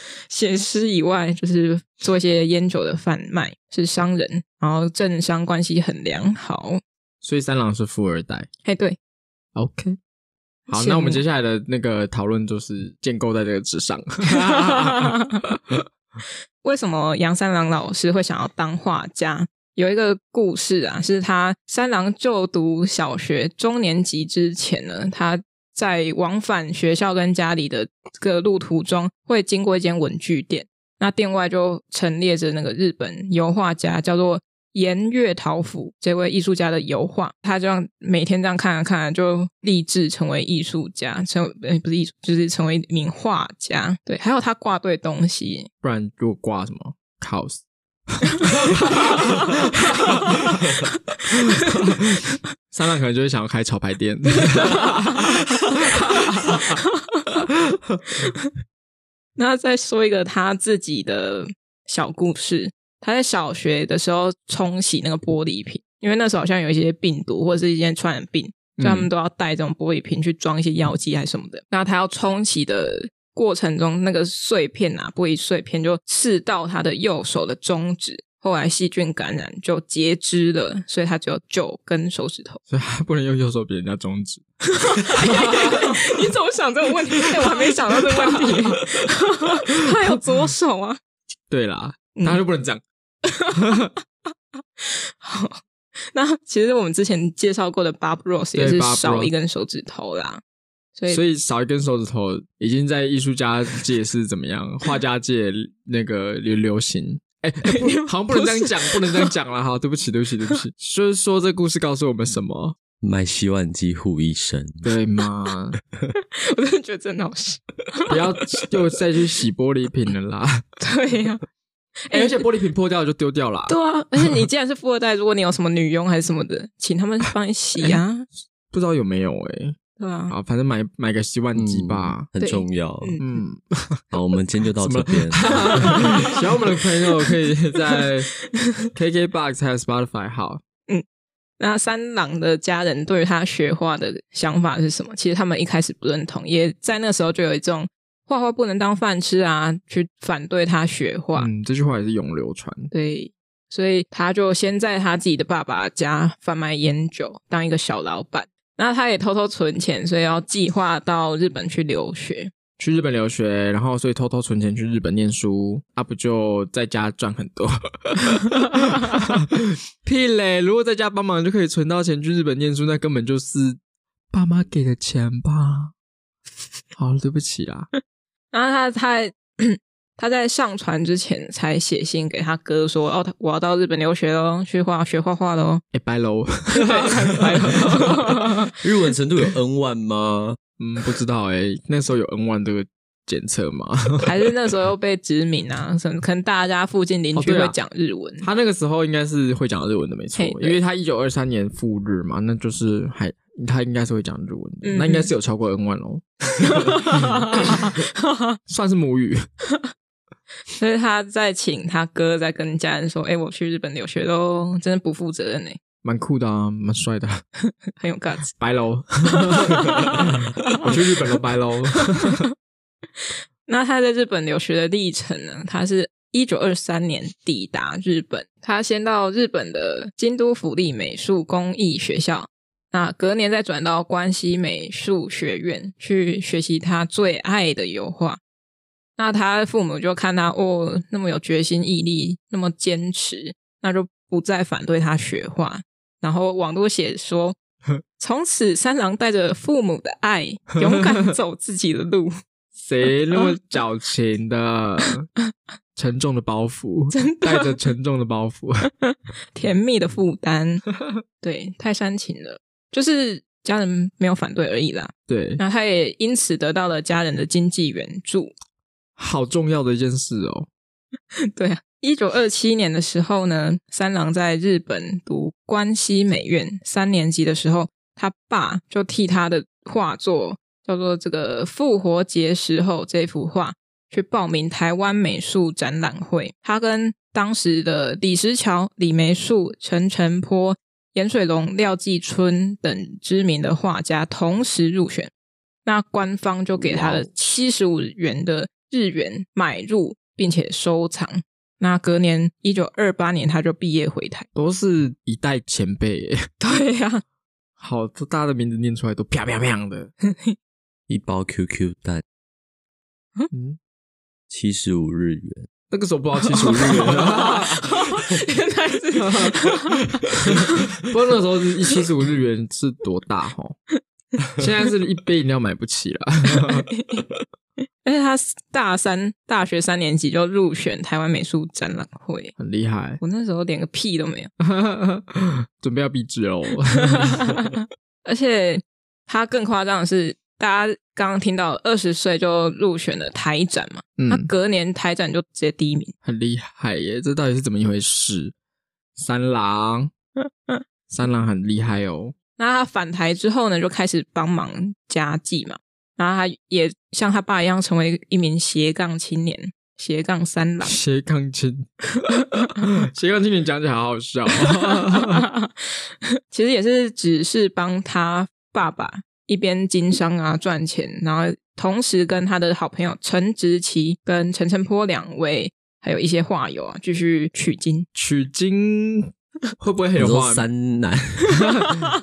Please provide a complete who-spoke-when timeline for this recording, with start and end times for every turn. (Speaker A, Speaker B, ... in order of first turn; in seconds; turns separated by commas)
Speaker A: 0.2-6.8, Speaker B: 7.2-8.5, Speaker A: 8.7-9.0, Speaker B: 9.6-10.0, Speaker A: 10.7-11.2, Speaker B: 10.7-15.8, Speaker A: 14.3-15.4, Speaker A: 16.6-45.7, Speaker B: 45.8-56.8, Speaker A: 54.5-55.0, Speaker A: 56.3-57.2, Speaker B: 57.4-58.0, Speaker A: 58.2-58.5, Speaker A: 59.4-82.6, Speaker B: 68.8-69.1, Speaker B: 82.7-84.4, Speaker A: 84.7-91.0, Speaker B: 85.0-86.1, Speaker B: 87.2-88.8, Speaker B: 89.8-90.2, Speaker B: 91.5-92.8, Speaker A: 92.2-92.4, Speaker A: 93.2-94.0, Speaker B: 93.6-93.9, Speaker A: 94.8-100.4, Speaker B: 98.5-99.3, Speaker A: 101.0-101.2, Speaker B: 101.1-112.8, Speaker A: 107.7-109.3, Speaker C: 113.0-114.9, Speaker B: 114.8-115.8, Speaker A: 116.2-118.2, Speaker B: 118.1-120.7, Speaker A: 120.8-121.4, Speaker A: 122.1-122.4, Speaker B: 122.1-124.5, Speaker A: 123.7-128.3, Speaker B: 128.7-129.8, Speaker A: 130.0-130.3, Speaker B: 130.3-132.3, Speaker C: 131.6-133.2, Speaker A: 132.4-133.4, Speaker B: 133.2-134.0, Speaker C: 134.1-136.1, Speaker B: 134.8-138.3, Speaker A: 135.9-136.2, Speaker A: 138.5-138.9, Speaker B: 138.9-140.6, Speaker A: 141.6-151.5, Speaker B: 151.3-152.9, Speaker A: 152.9-162.5, Speaker B: 162.8-169.5, Speaker B: 170.0-173.8, Speaker B: 174.3-175.9, Speaker B: 177.0-177.9, Speaker A: 178.5-185.8, Speaker B: 185.9-188.5, Speaker A: 186.7-188.7, Speaker C: 188.8-190.6, Speaker B: 190.8-194.3, Speaker A: 194.2-198.5, Speaker B: 197.3-197.8, Speaker B: 198.4-207.9, Speaker A: 200.4-200.8, Speaker A: 204.8-205.3, Speaker A: 206.6-208.6, Speaker B: 208.7-209.5, Speaker A: 210.8-215.8, Speaker B: 216.0-217.4, Speaker A: 217.6-218.6, Speaker B: 218.6-222.4, Speaker A: 219.4-220.9, Speaker A: 222.1-222.5, Speaker A: 223.3-238.4, Speaker A: 239.2-247.6, Speaker A: 248.2-252.3, Speaker B: 252.8-255.3, Speaker B: 255.9-258.9, Speaker A: 257.1-257.8, Speaker A: 259.0-268.5, Speaker B: 265.3-265.6, Speaker B: 269.2-270.7, Speaker A: 271.4-295.3, Speaker A: 295.9-304.5, Speaker C: 296.8-297.3, Speaker B: 304.6-306.5, Speaker A: 306.6-307.2, Speaker B: 307.8-310.1, Speaker A: 310.3-310.6, Speaker C: 311.1-312.2, Speaker B: 313.5-313.8, Speaker C: 314.5-315.7, Speaker B: 315.9-318.0, Speaker A: 316.5-320.3, Speaker B: 319.2-323.8, Speaker B: 324.6-326.9, Speaker A: 326.5-327.2, Speaker A: 328.1-332.6, Speaker B: 332.6-333.2, Speaker A: 333.2-334.5, Speaker B: 334.6-337.6, Speaker A: 337.1-346.1, Speaker B: 344.2-344.5, Speaker B: 346.2-348.5, Speaker B: 349.2-350.1, Speaker A: 350.4-350.8, Speaker B: 351.1-352.4, Speaker A: 352.6-361.0, Speaker B: 360.8-365.4, Speaker A: 364.6-378.1, Speaker B: 378.1-380.7, Speaker C: 380.2-381.6, Speaker B: 381.6-382.0